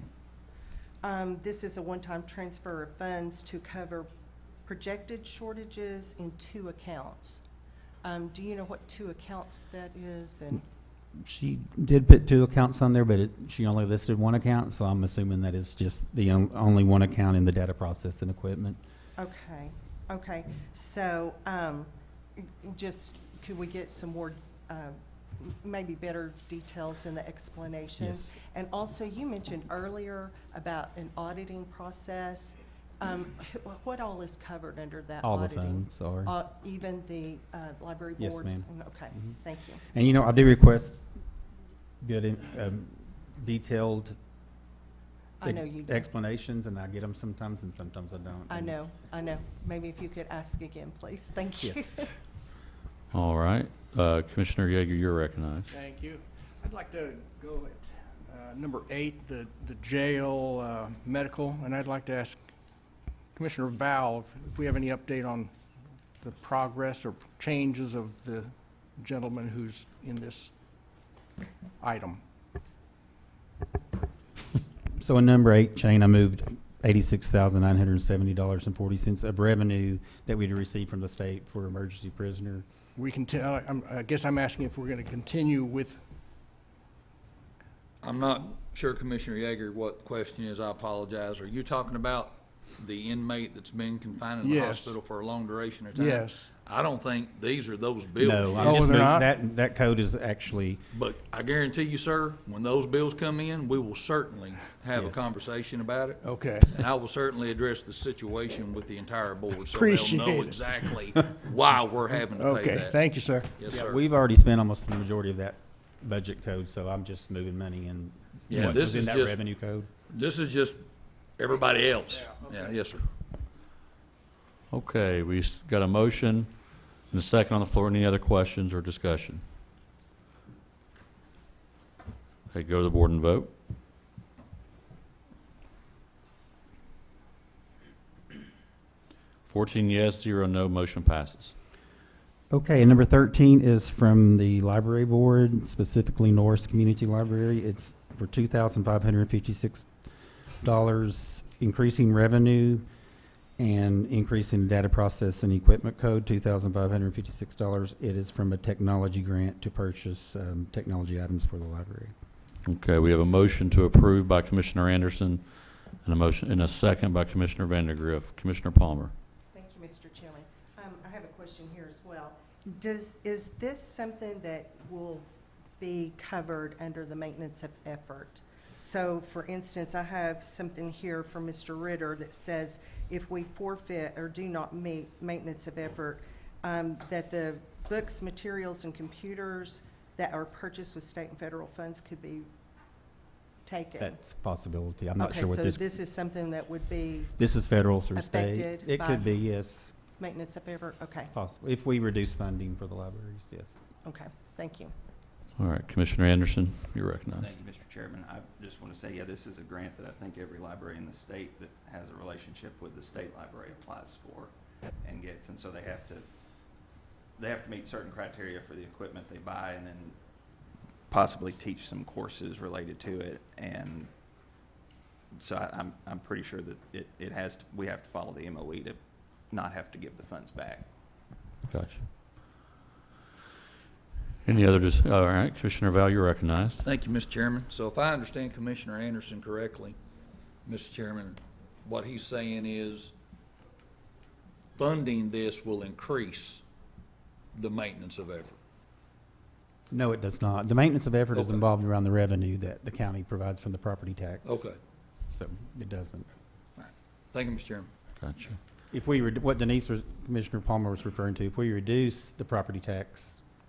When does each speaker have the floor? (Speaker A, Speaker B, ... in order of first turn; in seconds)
Speaker A: 1.0-4.1, 4.6-7.4, 8.0-10.7, 19.2-39.8, 45.4-46.0, 48.5-52.1, 169.5-175.3, 175.8-192.5, 193.7-194.2, 195.2-197.4, 198.2-199.3, 200.2-201.3, 204.0-204.9
Speaker B: 11.2-18.8, 28.0-28.4, 35.2-36.3, 38.2-38.7, 39.9-41.0, 42.0-44.2, 45.4-48.8, 51.6-52.1, 74.9-82.6, 98.2-100.8, 105.0-105.2, 113.7-119.9, 142.5-149.9, 150.6-152.8, 153.6-162.1, 194.0-195.9, 197.4-199.9, 201.3-203.8, 249.9-254.7, 255.3-256.3, 258.9-263.4
Speaker C: 53.1-55.7, 124.7-129.4, 132.5-133.5, 139.5-141.5, 162.7-169.1, 205.6-207.5, 231.7-232.1, 234.4-236.8, 258.2-258.6
Speaker D: 55.7-62.4, 63.3-65.5, 66.2-70.5, 71.8-72.2, 83.0-86.0, 94.4-95.0, 95.9-96.5, 98.6-99.3, 106.2-106.8, 109.7-111.4, 112.3-113.7, 122.2-122.8
Speaker E: 88.0-98.8, 100.9-113.0, 113.6-114.0, 118.5-119.4, 120.1-120.8, 121.4-123.0, 236.8-240.0, 240.7-243.1, 244.7-246.6, 247.5-248.6, 251.3-251.7, 254.4-254.8, 256.8-257.9
Speaker F: 207.4-214.5, 215.0-216.2, 217.4-220.2, 221.1-224.1, 225.4-229.0, 229.5-230.8